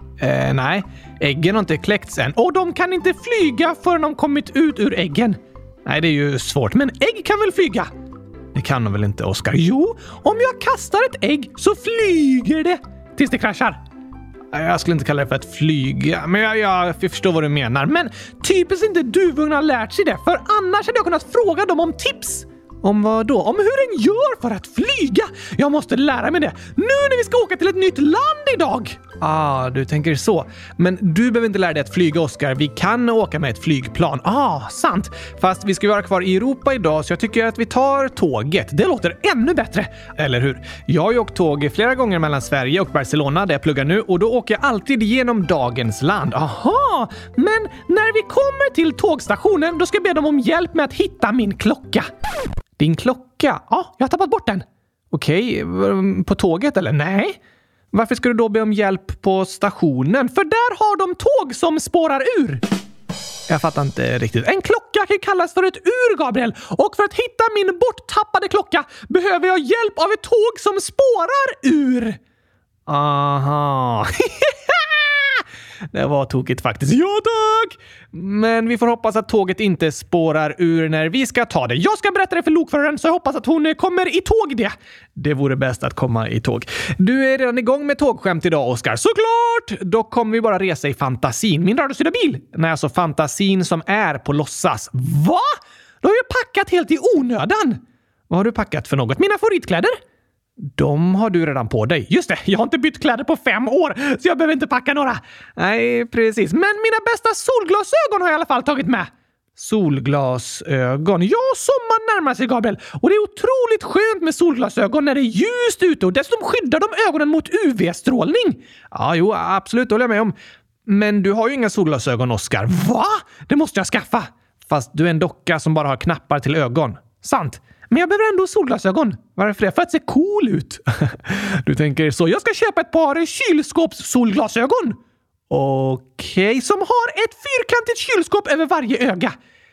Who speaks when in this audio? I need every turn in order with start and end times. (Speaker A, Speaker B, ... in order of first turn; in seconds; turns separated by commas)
Speaker A: 0.2-7.9, Speaker A: 8.5-13.8, Speaker A: 14.5-52.1, Speaker A: 52.8-57.4, Speaker A: 57.9-62.6, Speaker A: 63.5-72.2, Speaker A: 72.9-95.5, Speaker A: 96.0-99.9, Speaker A: 100.6-120.3, Speaker A: 120.9-135.0, Speaker A: 135.5-139.3